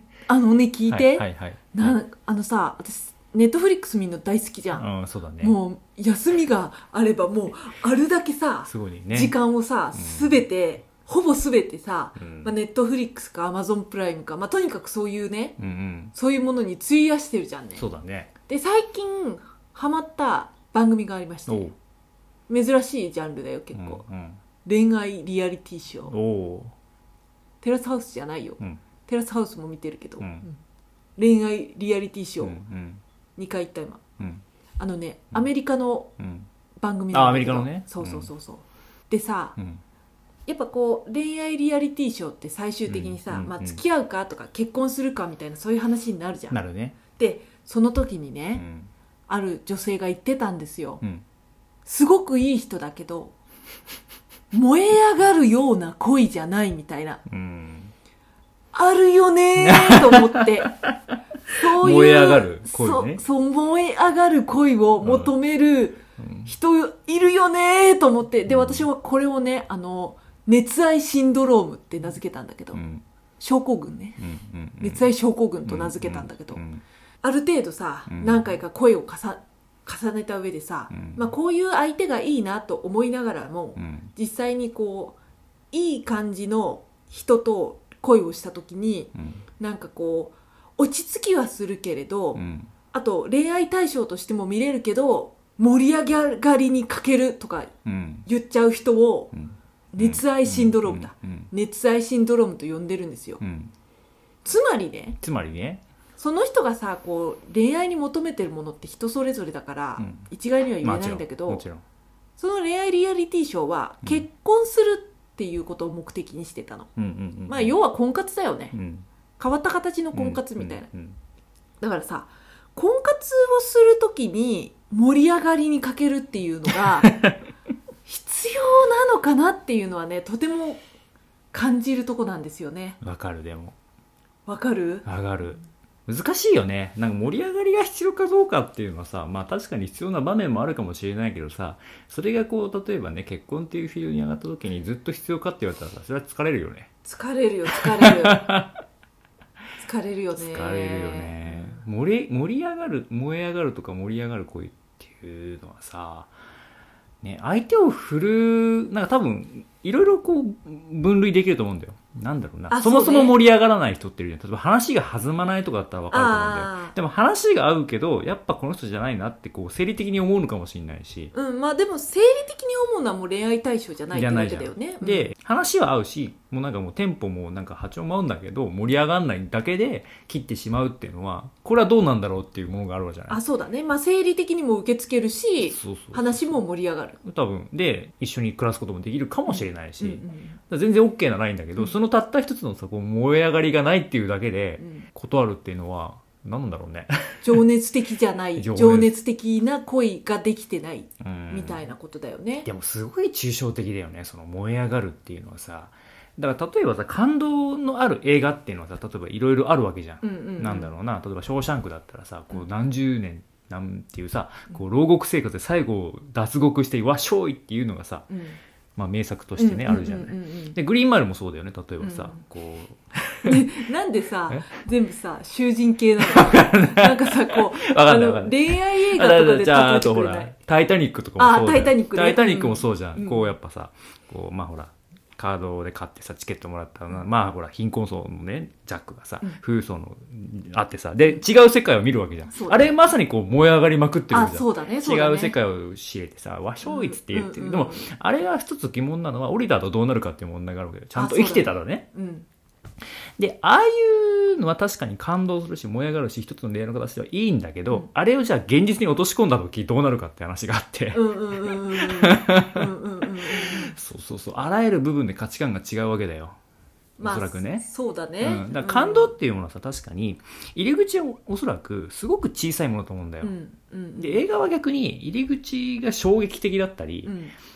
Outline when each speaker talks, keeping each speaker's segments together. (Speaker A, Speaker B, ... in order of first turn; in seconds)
Speaker A: 0.3-4.8, 5.4-15.6, 16.1-17.8, 18.5-21.7, 22.5-24.0, 24.6-26.1, 27.6-30.5, 31.2-32.6, 33.4-34.0, 34.8-36.1, 36.8-39.5, 40.5-46.6, 47.1-48.6, 49.3-51.0, 51.9-53.3, 54.5-57.2, 58.7-60.7, 61.5-72.8, 73.4-74.2, 74.8-76.6, 77.2-85.2, 85.7-97.7, 98.2-99.3, 99.9-103.4, 104.4-105.2, 106.2-111.6, 112.4-116.9, 117.5-118.7, 119.4-120.9, 121.8-127.1, 128.1-130.8, 131.5-133.0, 134.5-135.1, 147.0-148.4, 149.8-151.8, 162.7-163.3, 166.1-166.9, 171.3-175.3, 183.3-187.2, 189.5-190.6, 194.8-195.1, 197.4-202.7, 210.2-210.9, 218.3-218.6, 219.6-220.8, 222.0-222.4, 223.4-230.5, 231.4-233.5, 242.5-243.0, 244.3-245.5, 246.8-248.1, 251.1-252.4, 261.1-263.9, 267.2-269.3, 273.4-274.4, 277.2-277.5
Speaker B: 0.9-2.0, 4.7-5.6, 8.6-9.3, 9.9-10.4, 12.2-12.5, 15.6-16.1, 17.8-18.3, 21.5-21.7, 23.7-24.4, 26.1-26.7, 30.2-30.5, 32.4-33.0, 36.2-36.5, 37.1-38.3, 42.9-43.8, 46.5-47.0, 48.5-48.9, 57.3-57.9, 59.6-63.2, 65.0-65.3, 66.2-66.5, 68.5-68.9, 72.7-73.0, 74.2-75.1, 75.6-76.8, 78.1-78.6, 80.9-81.2, 83.8-84.1, 89.2-89.4, 92.3-92.7, 97.8-98.3, 99.3-101.5, 103.4-103.7, 105.2-105.8, 110.0-110.3, 110.8-111.8, 117.0-117.8, 118.7-119.0, 120.1-121.2, 127.0-127.3, 133.0-133.7, 135.0-146.9, 147.7-148.8, 150.3-156.3, 157.2-171.3, 174.1-183.4, 185.6-186.6, 187.2-197.6, 198.6-199.1, 201.2-201.8, 202.6-218.3, 219.0-223.6, 226.2-252.1, 253.4-262.9, 263.5-266.6, 267.2-267.9, 268.4-273.5, 274.2-277.4